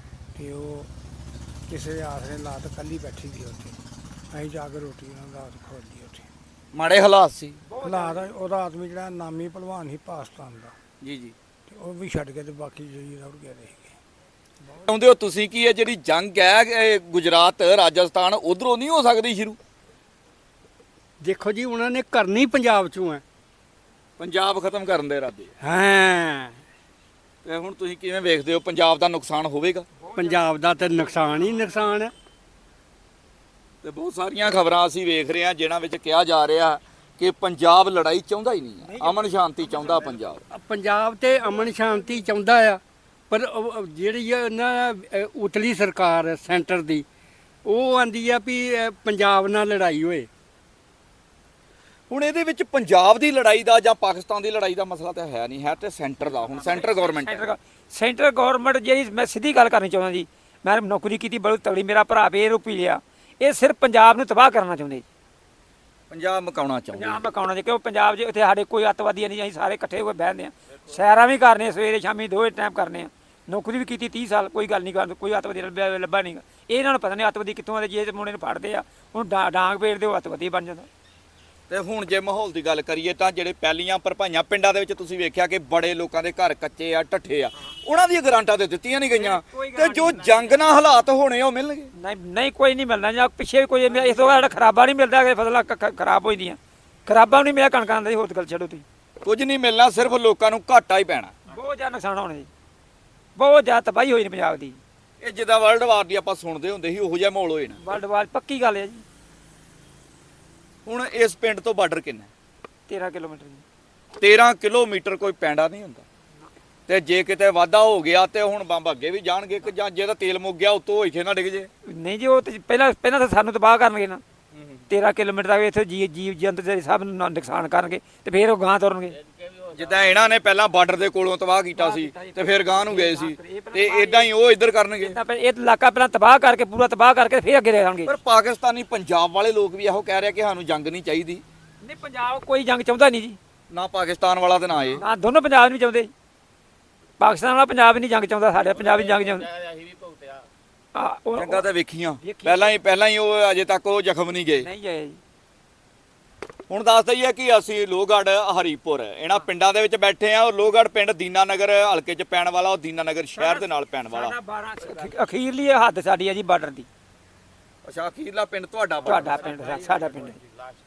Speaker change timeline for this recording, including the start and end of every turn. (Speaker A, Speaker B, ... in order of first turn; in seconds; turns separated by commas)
Speaker A: 0.3-0.9, Speaker A: 1.7-3.8, Speaker A: 4.3-6.3, Speaker B: 6.7-7.6, Speaker C: 7.7-8.3, Speaker A: 7.8-10.7, Speaker B: 11.0-11.3, Speaker A: 11.7-13.9, Speaker B: 14.8-19.6, Speaker D: 21.2-23.2, Speaker B: 24.2-25.5, Speaker D: 25.6-26.6, Speaker B: 27.4-29.9, Speaker C: 30.0-31.2, Speaker D: 30.1-32.1, Speaker B: 33.8-40.4, Speaker C: 38.8-40.1, Speaker D: 40.5-47.1, Speaker D: 47.6-50.3, Speaker B: 52.1-57.4, Speaker C: 56.5-65.0, Speaker B: 66.1-67.2, Speaker C: 66.9-80.9, Speaker B: 81.7-91.9, Speaker C: 89.1-90.6, Speaker C: 92.0-98.8, Speaker B: 99.2-101.3, Speaker C: 101.5-102.5, Speaker C: 103.4-104.8, Speaker B: 105.2-107.8, Speaker C: 107.8-109.0, Speaker B: 110.9-112.3, Speaker C: 112.9-113.6, Speaker B: 114.2-116.0, Speaker B: 116.9-121.7, Speaker C: 121.9-124.2, Speaker B: 124.5-124.8, Speaker C: 124.9-129.2, Speaker B: 129.7-135.2, Speaker C: 131.8-134.3, Speaker C: 135.0-138.1, Speaker B: 138.1-141.4, Speaker C: 141.8-143.4, Speaker B: 143.7-145.1, Speaker C: 144.9-146.1, Speaker C: 147.2-149.6, Speaker C: 150.9-151.7, Speaker B: 151.3-154.7, Speaker C: 152.2-152.7, Speaker C: 154.6-155.2, Speaker B: 156.7-164.3, Speaker C: 163.3-166.9, Speaker B: 167.8-169.4, Speaker C: 169.1-170.4